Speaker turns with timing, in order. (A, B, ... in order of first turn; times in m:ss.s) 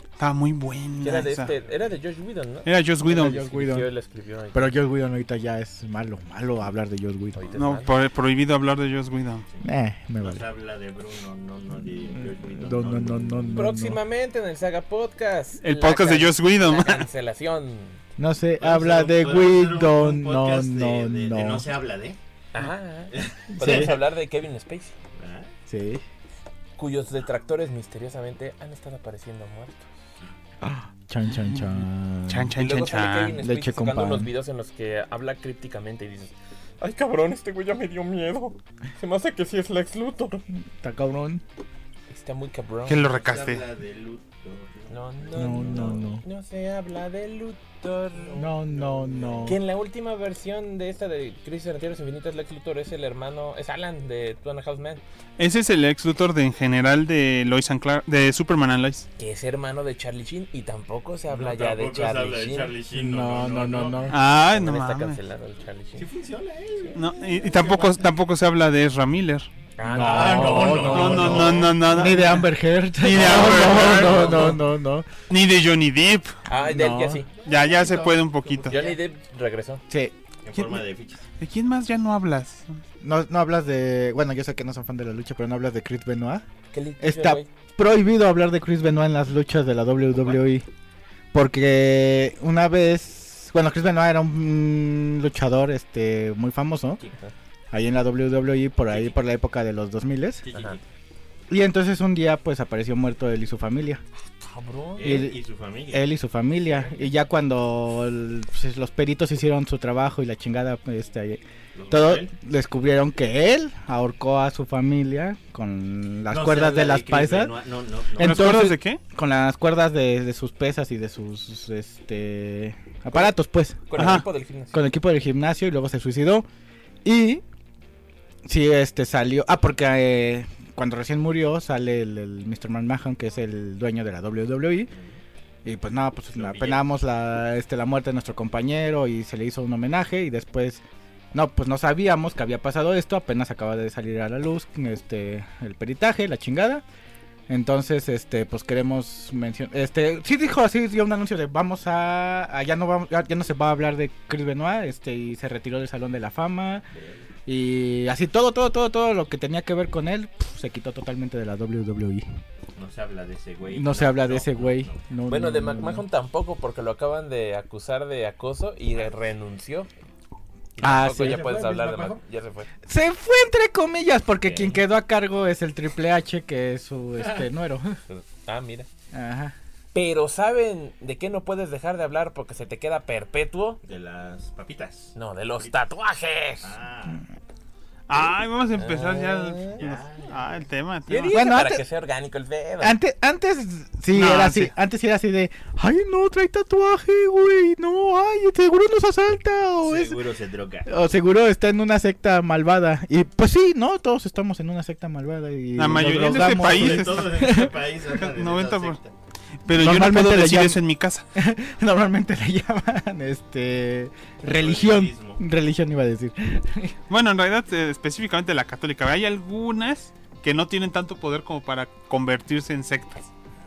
0:00.2-0:01.5 A
0:01.0-0:04.8 B
0:01.6-0:01.9 C
0:02.6-0:03.4 A
0:03.1-0:03.9 D
0:04.5-0:07.4 D
0:07.3-0:07.9 B
0:07.5-0:09.4 A
0:09.6-0:10.4 D
0:10.2-0:13.6 C
0:11.8-0:14.0 D
0:13.5-0:18.0 B
0:15.6-0:17.1 A
0:18.2-0:21.7 D
0:18.6-0:22.2 C
0:22.5-0:25.0 B
0:23.1-0:24.0 C
0:23.5-0:24.0 D
0:25.2-0:25.5 C
0:25.7-0:26.0 D
0:26.8-0:29.9 B
0:30.6-0:32.6 D
0:32.3-0:33.4 A
0:32.6-0:40.4 B
0:33.4-0:34.3 D
0:40.5-0:41.4 D
0:42.1-0:43.1 B
0:42.8-0:43.6 A
0:43.0-0:46.0 C
0:44.9-0:48.5 B
0:45.3-0:46.2 D
0:48.2-0:49.6 C
0:48.4-0:49.6 D
0:49.4-0:55.0 B
0:55.4-0:59.0 A
0:59.2-1:02.7 B
1:01.3-1:04.1 C
1:02.9-1:04.2 D
1:04.1-1:05.2 A
1:04.2-1:06.1 B
1:06.0-1:08.1 C
1:06.9-1:09.5 A
1:09.8-1:11.3 B
1:09.8-1:15.1 D
1:09.9-1:12.1 C
1:10.6-1:14.6 A
1:13.2-1:14.6 B
1:15.3-1:16.4 A
1:16.4-1:17.3 B
1:16.5-1:17.2 D
1:17.3-1:19.0 C
1:17.4-1:18.8 A
1:18.7-1:19.8 B
1:19.9-1:20.6 D
1:20.4-1:21.2 C
1:21.4-1:22.8 A
1:23.0-1:26.4 D
1:26.7-1:27.5 B
1:27.0-1:30.7 D
1:31.3-1:37.0 D
1:37.0-1:37.3 B
1:37.7-1:40.4 D
1:38.9-1:39.2 C
1:40.4-1:40.8 C
1:40.5-1:40.8 B
1:41.5-1:44.0 D
1:44.4-1:45.3 B
1:45.0-1:46.0 C
1:45.0-1:57.6 D
1:46.7-1:47.1 C
1:51.7-1:52.3 C
1:56.3-1:58.6 C
1:58.1-2:04.2 D
1:58.2-1:59.0 A
2:03.9-2:04.9 B
2:04.0-2:04.2 A
2:04.7-2:06.4 D
2:07.0-2:07.4 D
2:08.4-2:14.9 D
2:14.9-2:15.2 C
2:15.6-2:26.8 D
2:16.3-2:16.8 C
2:27.5-2:36.8 D
2:36.9-2:37.3 C
2:37.4-2:42.3 D
2:42.7-2:45.0 C
2:43.6-2:46.0 D
2:45.3-2:49.9 B
2:50.8-2:52.7 B
2:50.8-2:51.4 D
2:51.0-2:52.2 C
2:52.8-2:58.0 D
2:54.4-2:54.8 C
2:58.1-2:58.9 B
2:59.1-2:59.5 D
2:59.9-3:03.8 B
3:03.8-3:05.8 C
3:05.1-3:06.7 B
3:06.6-3:07.2 C
3:08.1-3:11.3 A
3:08.8-3:09.8 B
3:09.8-3:10.6 C
3:11.1-3:13.0 B
3:11.3-3:11.8 D
3:12.8-3:20.2 D
3:14.1-3:14.7 A
3:19.8-3:20.9 C
3:20.8-3:27.7 D
3:25.7-3:29.0 A
3:26.0-3:29.1 C
3:29.6-3:31.2 A
3:29.7-3:30.8 D
3:31.3-3:36.9 D
3:34.4-3:35.4 C
3:37.1-3:43.3 A